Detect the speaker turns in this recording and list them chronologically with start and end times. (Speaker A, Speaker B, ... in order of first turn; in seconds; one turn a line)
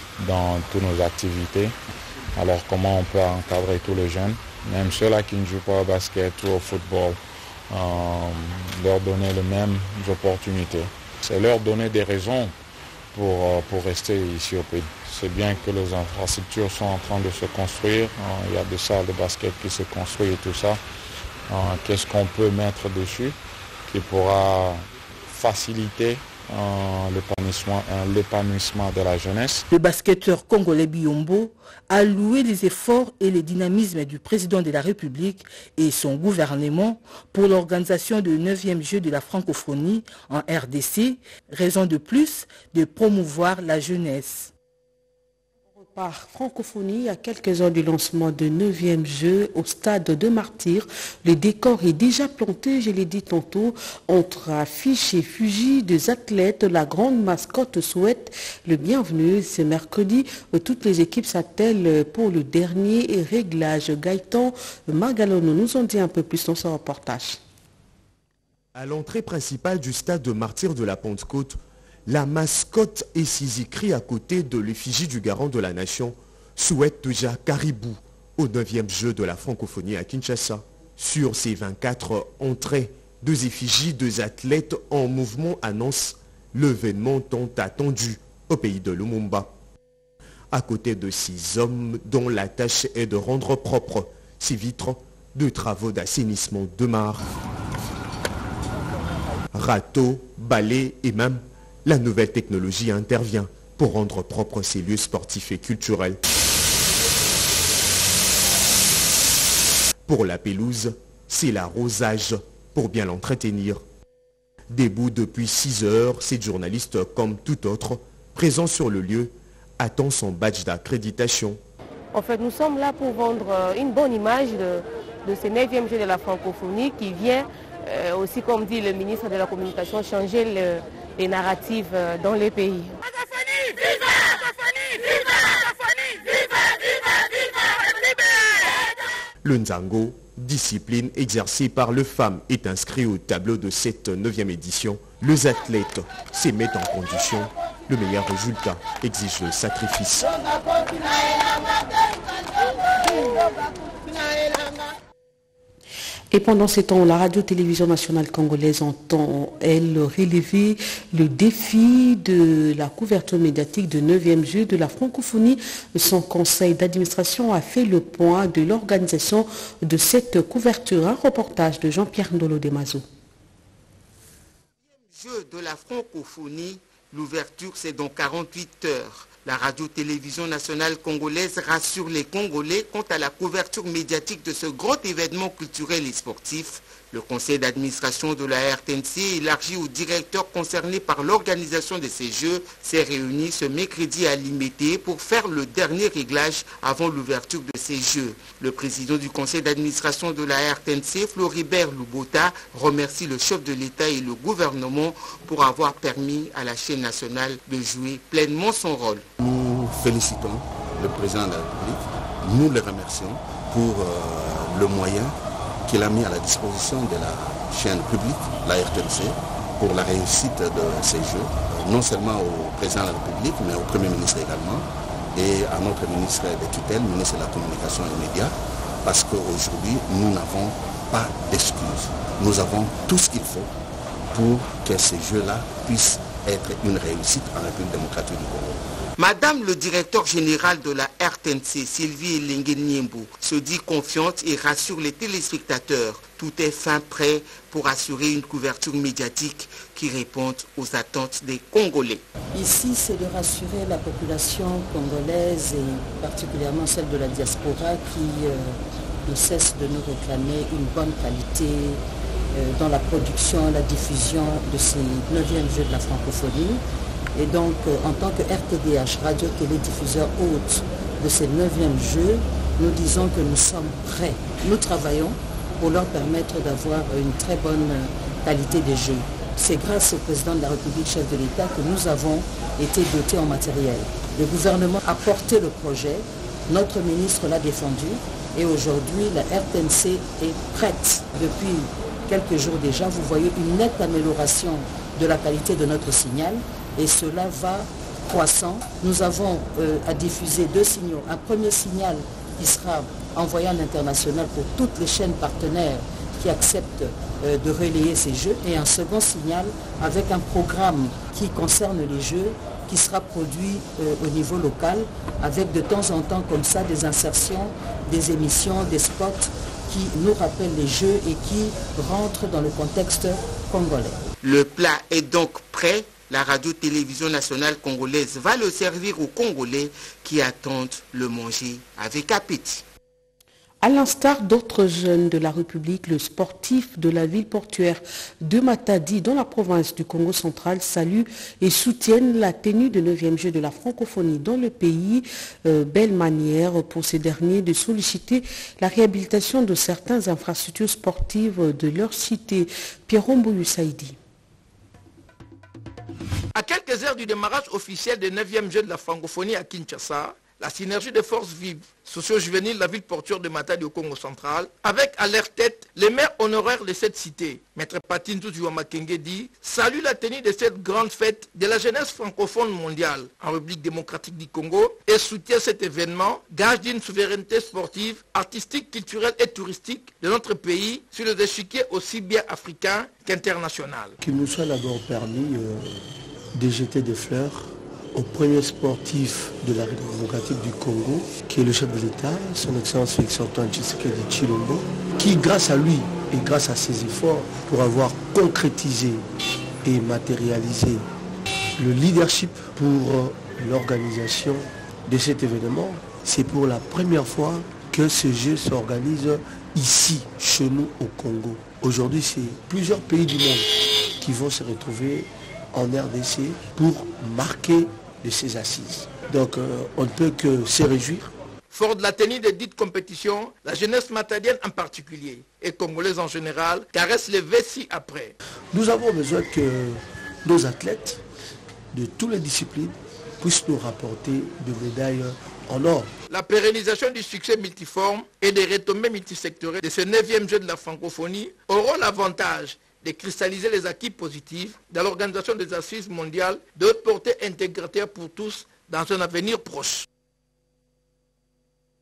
Speaker A: 0.2-1.7
Speaker A: 2.4-7.2
Speaker A: 7.7-12.6
Speaker A: 13.1-20.8
Speaker A: 21.5-29.7
Speaker B: 29.7-44.5
Speaker C: 45.7-67.4
Speaker D: 68.8-89.5
Speaker D: 90.5-97.2
Speaker D: 99.5-106.2
Speaker D: 110.0-113.8
Speaker D: 114.7-121.6
Speaker E: 122.1-133.0
Speaker D: 139.4-150.3
Speaker C: 156.3-173.0
Speaker F: 175.1-209.2
Speaker G: 209.4-215.3
Speaker G: 215.8-233.7
Speaker G: 234.3-238.8
Speaker F: 239.2-252.2
Speaker H: 252.5-262.0
Speaker H: 262.5-266.8
Speaker H: 267.4-324.2
Speaker F: 324.4-332.8
Speaker C: 333.8-354.2
Speaker I: 356.5-384.1
Speaker J: 384.2-386.0
Speaker J: 386.6-399.2
Speaker J: 399.8-401.1
Speaker J: 401.8-413.7
Speaker J: 414.2-421.3
Speaker I: 421.7-428.4
Speaker J: 428.7-431.2
Speaker J: 431.9-436.1
Speaker I: 436.3-450.1